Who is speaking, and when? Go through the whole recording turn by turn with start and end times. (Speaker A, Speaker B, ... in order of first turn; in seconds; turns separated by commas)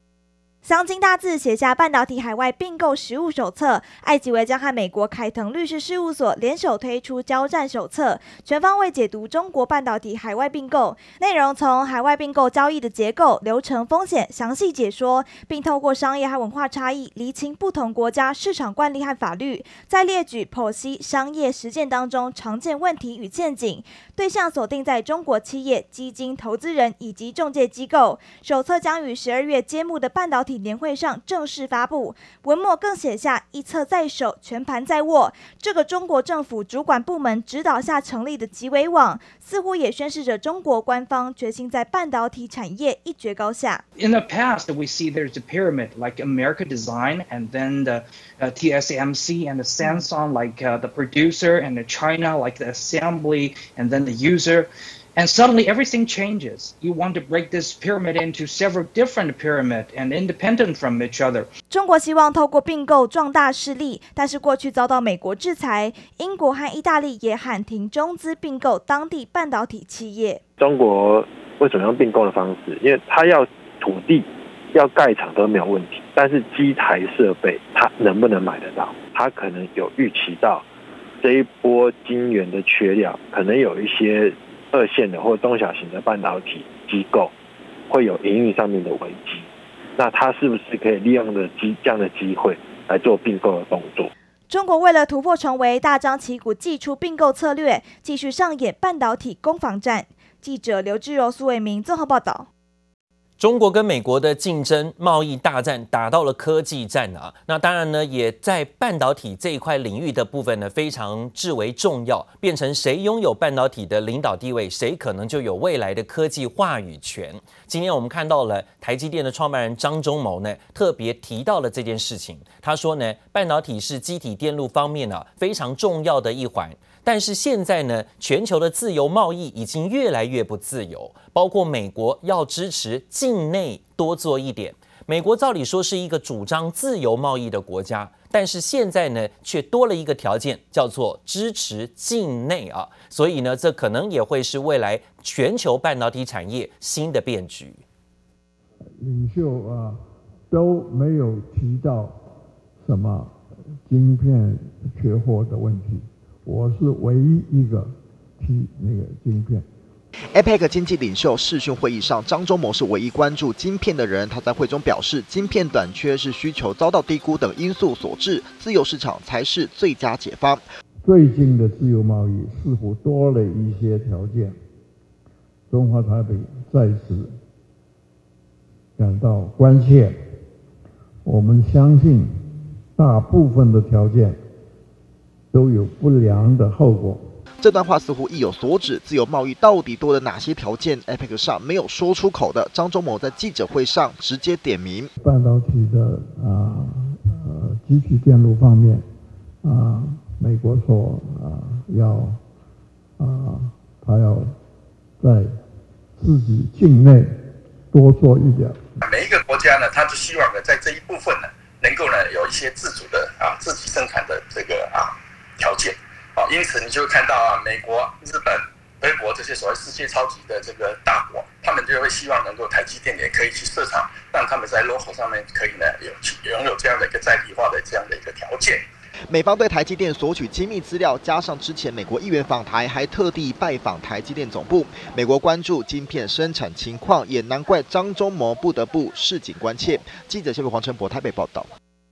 Speaker A: 0.6-43.8, Speaker B: 44.0-61.5, Speaker A: 61.7-70.4, Speaker C: 70.6-80.6, Speaker C: 81.2-87.3, Speaker C: 87.9-89.5, Speaker C: 90.0-94.1, Speaker A: 94.5-102.5, Speaker D: 103.4-147.8, Speaker E: 149.0-152.2, Speaker E: 152.8-153.3, Speaker E: 153.9-159.7, Speaker F: 160.3-170.7, Speaker E: 171.0-174.6, Speaker E: 175.7-177.4, Speaker E: 179.0-180.2, Speaker E: 181.2-182.4, Speaker E: 182.9-184.4, Speaker E: 185.5-187.2, Speaker F: 187.6-195.1, Speaker E: 195.2-199.1, Speaker E: 199.6-202.4, Speaker E: 203.2-204.6, Speaker E: 205.2-205.6, Speaker E: 206.2-207.4, Speaker E: 207.9-208.8, Speaker G: 209.0-228.8, Speaker F: 229.3-241.7